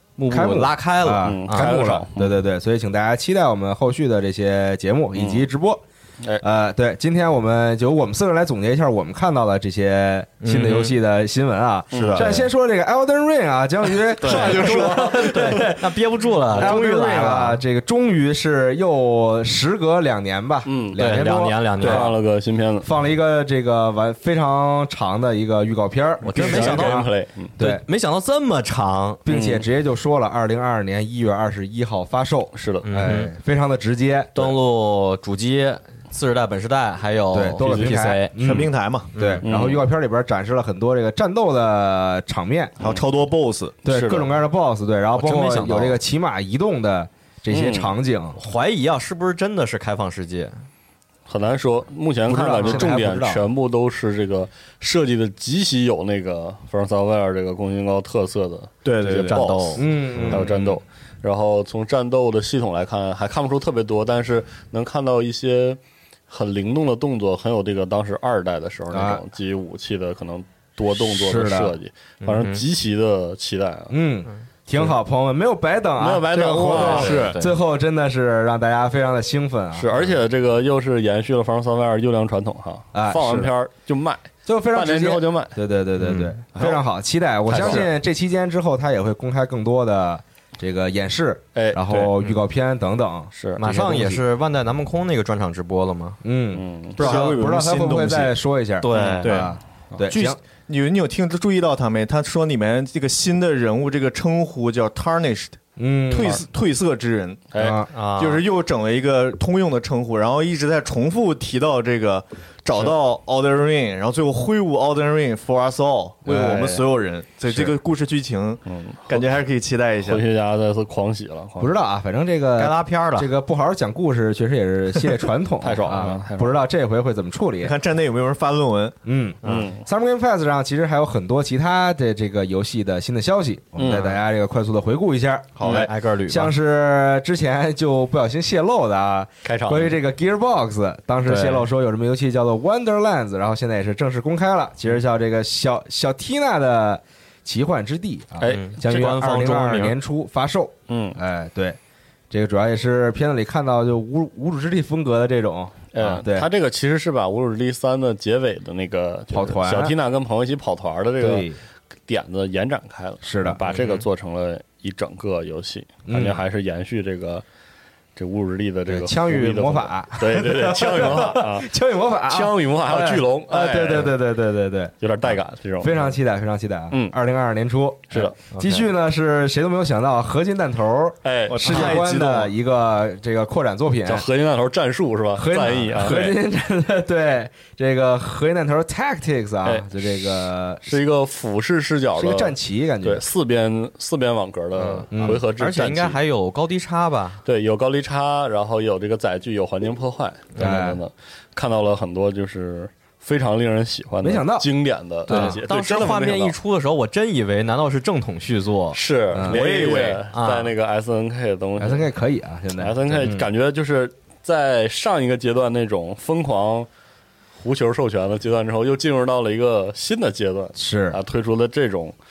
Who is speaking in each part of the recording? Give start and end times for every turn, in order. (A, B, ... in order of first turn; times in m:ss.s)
0:00.2-0:02.0 A
0:00.3-0:05.8 B
0:01.2-0:02.3 C
0:05.2-0:05.5 C
0:06.4-0:15.7 B
0:10.4-0:11.0 A
0:11.9-0:12.4 C
0:12.0-0:12.4 D
0:12.1-0:12.4 A
0:14.1-0:17.6 A
0:14.2-0:15.6 D
0:14.4-0:15.0 C
0:16.5-0:22.2 B
0:20.6-0:22.9 C
0:21.0-0:22.2 A
0:22.8-0:27.8 B
0:26.2-0:27.1 A
0:26.2-0:27.6 C
0:27.6-0:29.2 A
0:29.2-0:34.5 B
0:29.3-0:29.6 C
0:32.5-0:32.9 C
0:32.8-0:33.3 A
0:34.4-0:38.6 A
0:37.3-0:42.8 B
0:37.6-0:38.1 C
0:38.4-0:39.1 D
0:39.1-0:39.5 A
0:39.4-0:39.8 C
0:42.8-0:43.8 D
0:43.8-0:44.3 C
0:43.9-0:48.4 B
0:45.2-0:46.0 A
0:47.5-0:48.0 C
0:48.4-0:50.6 A
0:51.3-1:14.0 C
0:52.3-0:53.5 B
0:58.8-0:59.6 D
0:58.9-1:00.6 A
0:59.8-1:00.6 B
1:08.9-1:09.2 B
1:11.0-1:11.8 B
1:12.2-1:12.6 A
1:13.9-1:19.9 B
1:16.0-1:17.3 C
1:16.5-1:17.6 A
1:16.7-1:17.4 D
1:19.7-1:25.6 C
1:22.9-1:23.5 B
1:24.5-1:34.2 B
1:26.0-1:26.3 A
1:27.5-1:27.9 C
1:31.6-1:32.1 C
1:33.3-1:33.6 C
1:33.6-1:36.2 A
1:36.2-1:40.4 B
1:36.5-1:37.1 C
1:37.0-1:38.4 D
1:37.0-1:37.3 A
1:38.8-1:39.5 A
1:39.0-1:39.2 C
1:39.2-1:39.6 D
1:40.1-2:00.2 D
1:45.8-1:46.4 B
1:47.5-1:47.8 C
1:47.6-1:47.9 B
1:47.9-1:48.4 A
1:56.3-1:56.8 C
1:58.6-1:59.2 C
2:00.0-2:01.8 C
2:01.6-2:07.8 B
2:02.6-2:03.3 A
2:05.6-2:06.6 C
2:07.6-2:09.0 D
2:09.0-2:31.8 B
2:09.4-2:09.9 C
2:13.8-2:14.1 C
2:13.9-2:14.2 A
2:15.6-2:15.9 D
2:15.6-2:15.9 C
2:15.7-2:16.6 A
2:19.5-2:19.9 C
2:19.6-2:20.0 A
2:21.2-2:21.7 A
2:28.4-2:28.7 C
2:28.4-2:30.0 A
2:30.9-2:31.2 C
2:32.3-2:36.5 B
2:35.9-2:41.5 C
2:39.3-2:40.0 B
2:41.2-2:41.6 B
2:42.1-2:47.4 C
2:43.2-2:43.6 B
2:43.7-2:44.0 A
2:46.1-2:46.4 B
2:48.2-2:51.7 C
2:48.9-2:54.9 B
2:52.3-2:54.2 C
2:55.0-2:56.2 C
2:55.8-3:04.2 B
2:56.9-2:57.2 C
2:58.5-2:58.9 A
3:01.2-3:02.0 C
3:01.5-3:02.6 D
3:04.0-3:06.4 C
3:05.4-3:11.0 B
3:09.6-3:16.2 C
3:12.2-3:13.3 B
3:14.8-3:17.4 A
3:15.1-3:15.4 B
3:17.4-3:26.6 C
3:20.6-3:21.0 B
3:24.2-3:24.7 B
3:25.3-3:25.6 B
3:25.3-3:29.0 A
3:28.9-3:32.1 C
3:29.3-3:29.6 B
3:29.4-3:30.2 D
3:29.6-3:30.7 A
3:31.8-3:33.5 B
3:32.8-3:36.9 C
3:37.6-3:42.2 C
3:40.8-3:41.2 B